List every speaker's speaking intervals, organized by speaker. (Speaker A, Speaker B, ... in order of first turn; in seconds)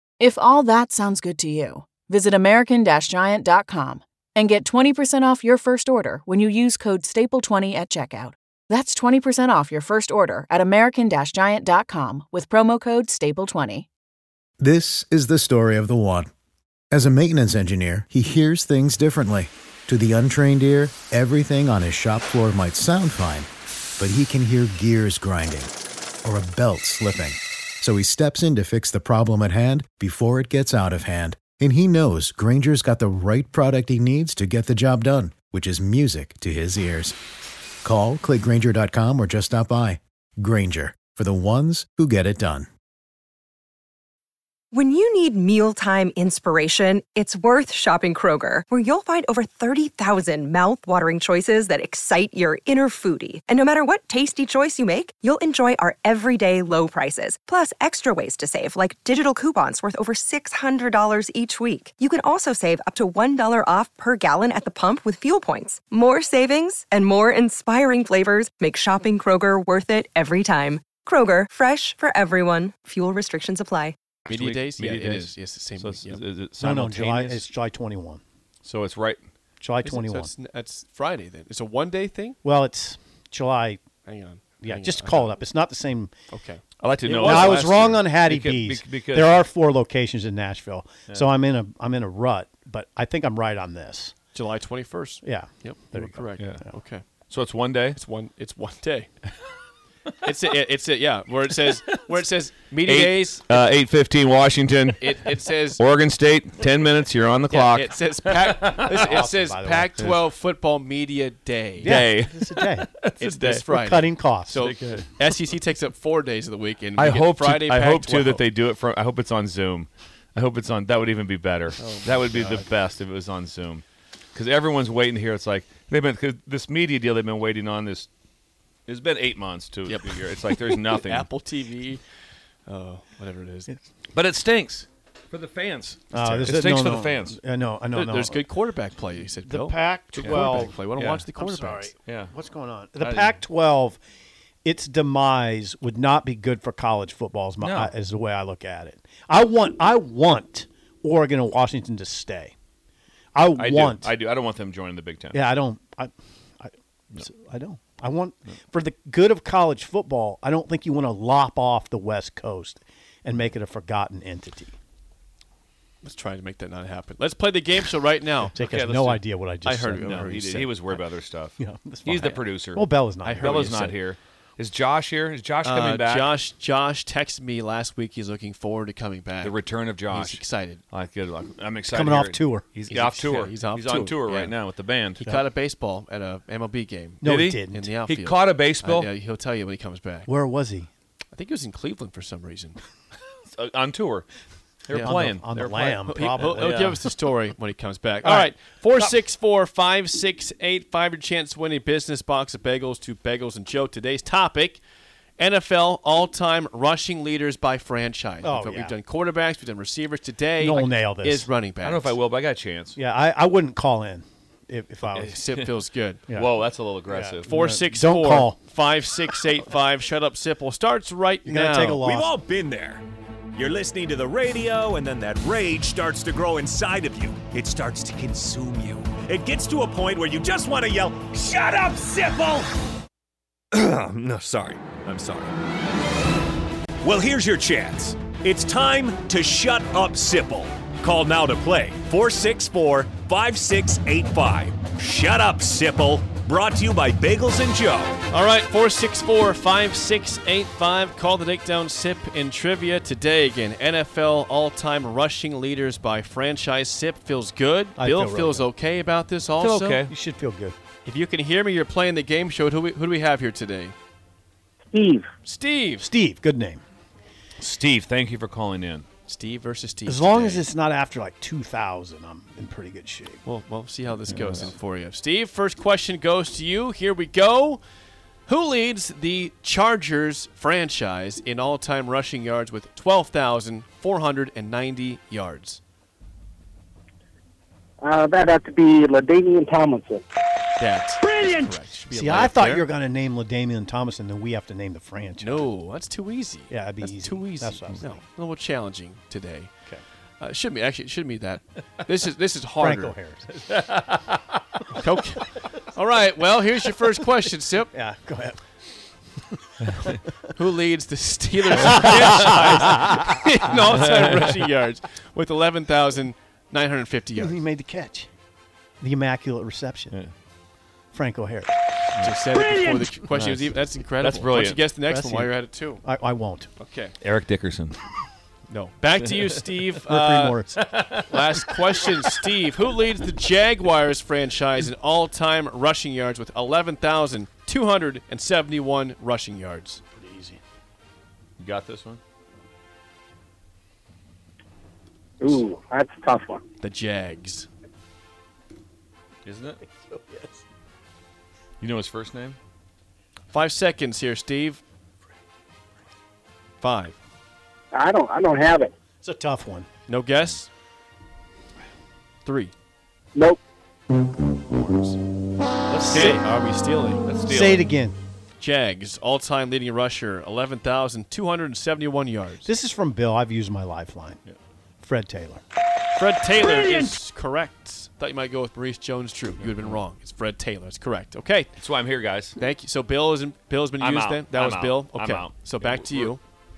Speaker A: 0.2-13.9
Speaker B: 14.6-16.3, 16.9-23.5, 24.0-25.7, 26.2-37.1, 37.8-42.7
Speaker C: 44.7-74.0
Speaker D: 74.3-77.4, 78.6-79.2, 86.8-89.5, 97.3-98.0, 102.8-105.2, 105.8-109.0, 111.8-113.7, 114.5-115.1, 117.0-123.8, 124.3-128.1, 128.9-131.3, 134.1-137.4, 140.1-140.7, 142.1-142.3, 143.0-143.4, 147.6-147.9, 153.5-155.4, 168.6-169.3, 170.0-176.3, 179.4-185.3, 187.2-189.1, 193.5-194.3, 194.9-197.0, 211.8-213.0, 215.2-215.7, 216.3-217.5, 259.6-260.1, 267.6-269.1, 303.5-304.6, 314.1-314.4, 323.3-324.9, 327.2-328.0, 330.7-332.4, 341.6-342.2, 349.4-349.8, 351.8-352.6, 365.9-366.4, 367.2-367.9, 381.8-382.6, 384.0-386.4
Speaker E: 74.3-76.2, 77.1-77.4, 79.8-82.4, 84.0-85.3, 86.3-87.8, 94.3-97.0, 98.0-99.1, 100.2-103.6, 105.0-105.8, 107.5-112.0, 113.2-118.5, 121.8-122.7, 129.9-132.0, 132.7-133.8, 137.9-141.9, 166.0-168.6, 169.6-170.8, 173.2-174.0, 175.6-180.8, 182.9-184.6, 185.2-190.3, 191.3-192.8, 194.9-195.2, 196.1-204.8, 205.4-212.2, 215.2-216.3, 217.5-222.0, 248.3-260.1, 261.1-263.9, 265.4-266.1, 269.3-270.7, 273.4-277.8, 278.5-285.8, 290.8-292.9, 295.4-299.7, 300.4-303.2, 305.0-307.9, 310.6-317.6, 322.2-326.0, 326.8-327.1, 328.7-330.6, 331.3-340.0, 346.8-347.7, 353.5-354.8, 356.8-357.2, 360.1-360.7, 362.4-362.7, 364.7-365.2, 366.1-367.2, 368.6-372.7, 376.1-381.7, 382.6-386.4
Speaker F: 76.6-78.2, 79.6-80.3, 82.4-83.9, 84.6-86.1, 87.1-94.2, 95.2-96.7, 109.0-110.2, 111.8-112.9, 113.7-114.7, 136.1-138.4, 139.4-144.0, 144.6-152.5, 153.3-154.1, 155.3-164.8, 168.6-171.0, 171.6-173.9, 181.9-182.7, 187.2-188.0, 190.3-190.9, 195.0-197.0, 198.2-199.1, 208.4-209.0, 210.6-211.5, 213.0-215.4, 216.3-218.6, 221.5-222.3, 258.0-258.7, 260.1-260.8, 266.1-266.8, 270.1-273.4, 274.4-274.7, 292.1-295.7, 296.7-298.2, 302.8-303.4, 307.9-308.6, 311.8-313.2, 317.4-318.3, 319.0-320.2, 321.1-321.8, 325.0-326.7, 330.1-330.8, 340.1-340.6, 349.9-350.6, 359.2-359.9, 367.4-368.2, 372.6-374.4, 375.0-375.6
Speaker G: 222.0-232.8, 233.7-235.6, 237.0-248.2
Speaker H: 264.9-265.3, 288.0-290.2, 345.4-346.6, 357.9-358.9, 363.4-363.6